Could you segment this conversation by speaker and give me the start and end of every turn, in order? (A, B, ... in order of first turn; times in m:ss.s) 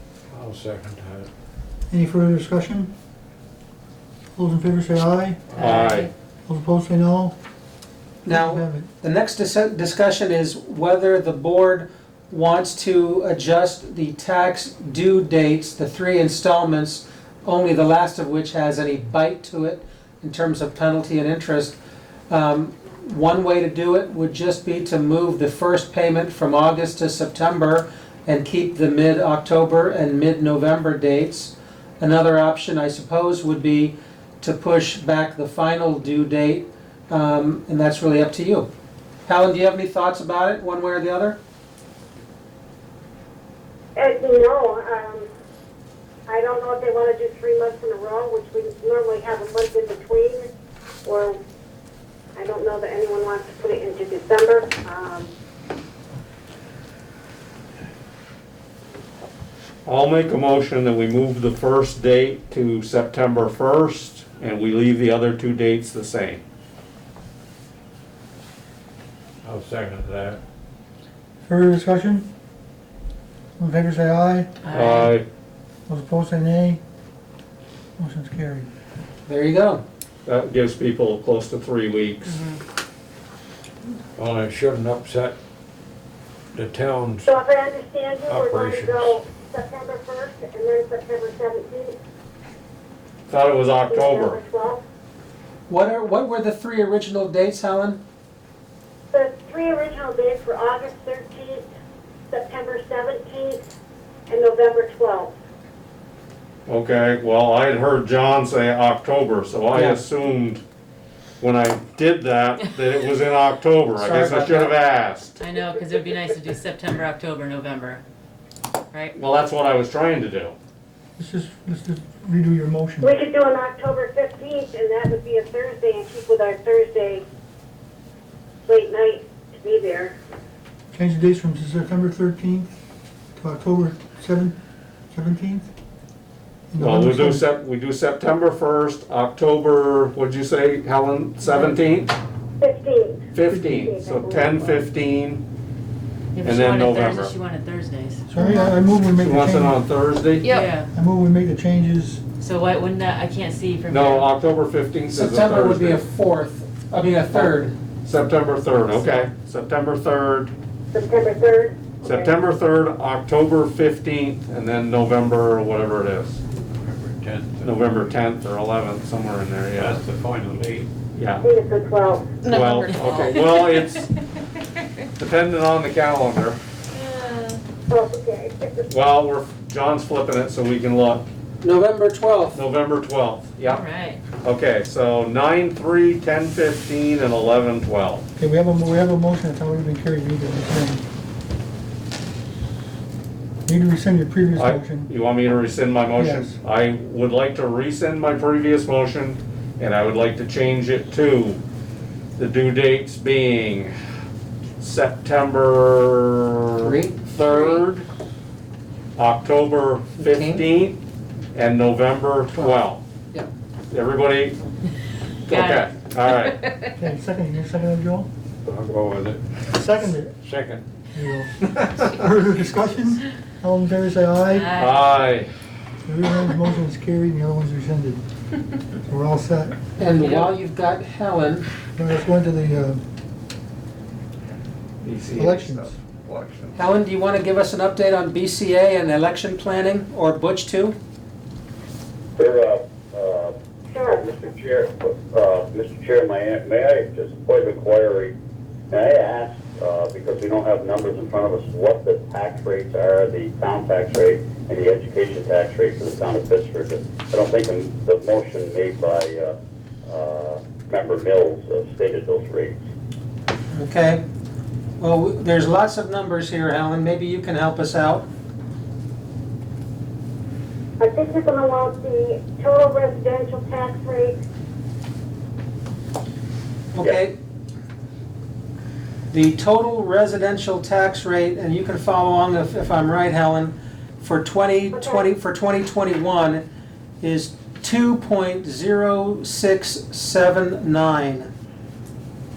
0:00.3-0:01.3 A
0:01.9-0:02.9 B
0:04.4-0:05.4 B
0:05.5-0:06.1 C
0:05.6-0:06.1 D
0:06.5-0:07.3 B
0:08.2-0:21.8 E
0:08.3-0:08.9 B
0:22.3-0:38.7 E
0:39.3-0:41.4 E
0:44.0-0:45.3 F
0:46.3-0:50.5 F
0:51.0-0:51.4 F
0:52.3-0:55.3 F
0:59.8-1:06.4 D
1:09.4-1:10.4 A
1:11.4-1:12.3 B
1:13.6-1:14.5 B
1:14.6-1:15.1 C
1:14.7-1:15.2 D
1:15.9-1:16.8 B
1:18.0-1:18.7 B
1:19.3-1:19.8 E
1:20.2-1:22.4 D
1:24.2-1:25.4 A
1:26.6-1:27.3 A
1:27.2-1:31.9 F
1:28.3-1:29.1 A
1:33.3-1:34.4 D
1:33.9-1:34.8 F
1:35.7-1:38.0 E
1:39.1-1:41.7 F
1:42.3-1:43.6 F
1:44.3-1:45.3 F
1:46.7-1:50.6 D
1:49.7-1:50.0 E
1:51.4-1:55.3 D
1:54.0-1:54.7 E
1:55.4-1:58.0 C
1:59.1-2:00.6 D
2:01.2-2:03.2 B
2:03.0-2:07.2 F
2:08.7-2:10.2 F
2:10.9-2:12.7 B
2:13.4-2:14.6 B
2:15.1-2:15.7 B
2:16.7-2:17.4 B
2:16.8-2:22.1 D
2:22.6-2:24.8 F
2:23.3-2:25.4 D
2:26.3-2:28.2 C
2:26.4-2:27.3 D
2:28.3-2:29.8 B
2:29.2-2:30.6 D
2:30.4-2:30.9 C
2:30.9-2:32.2 B
2:32.4-2:34.3 C
2:33.9-2:36.0 D
2:35.1-2:37.8 E
2:37.3-2:40.5 D
2:40.9-2:42.3 F
2:42.0-2:46.4 D
2:46.6-2:48.1 A
2:47.6-2:50.0 D
2:49.8-2:50.9 A
2:51.1-2:51.5 D
2:51.4-2:53.3 F
2:52.5-2:54.1 D
2:55.2-2:56.6 D
2:57.0-2:57.6 C
2:57.9-2:58.9 F
2:58.9-3:01.3 D
3:01.6-3:02.6 E
3:02.5-3:03.8 D
3:03.7-3:04.2 C
3:04.4-3:08.2 D
3:08.4-3:11.0 B
3:13.7-3:15.1 B
3:14.6-3:21.6 D
3:16.1-3:16.6 B
3:22.4-3:23.9 D
3:24.8-3:28.0 D
3:26.8-3:27.2 E
3:29.2-3:31.0 D
3:30.2-3:30.6 E
3:31.5-3:33.0 D
3:33.9-3:34.6 D
3:35.5-3:36.6 D
3:35.5-3:36.9 C
3:37.0-3:38.3 B
3:38.7-3:39.6 A
3:39.7-3:40.3 B
3:40.4-3:40.8 A
3:41.1-3:44.7 B
3:44.5-3:45.1 C
3:44.8-3:45.5 D
3:46.1-3:48.2 B
3:49.1-3:49.8 B
3:50.0-3:51.7 E
3:52.0-3:53.0 B
3:55.0-3:56.8 D
3:55.3-3:55.9 B
3:56.8-4:01.0 E
4:02.4-4:03.5 G
4:03.9-4:04.3 F
4:04.1-4:08.3 G
4:08.9-4:22.8 G
4:23.7-4:24.2 E
4:25.0-4:28.2 E
4:31.0-4:34.4 F
4:36.9-4:37.3 E
4:39.3-4:46.6 E
4:44.9-4:45.3 F
4:47.2-4:51.5 E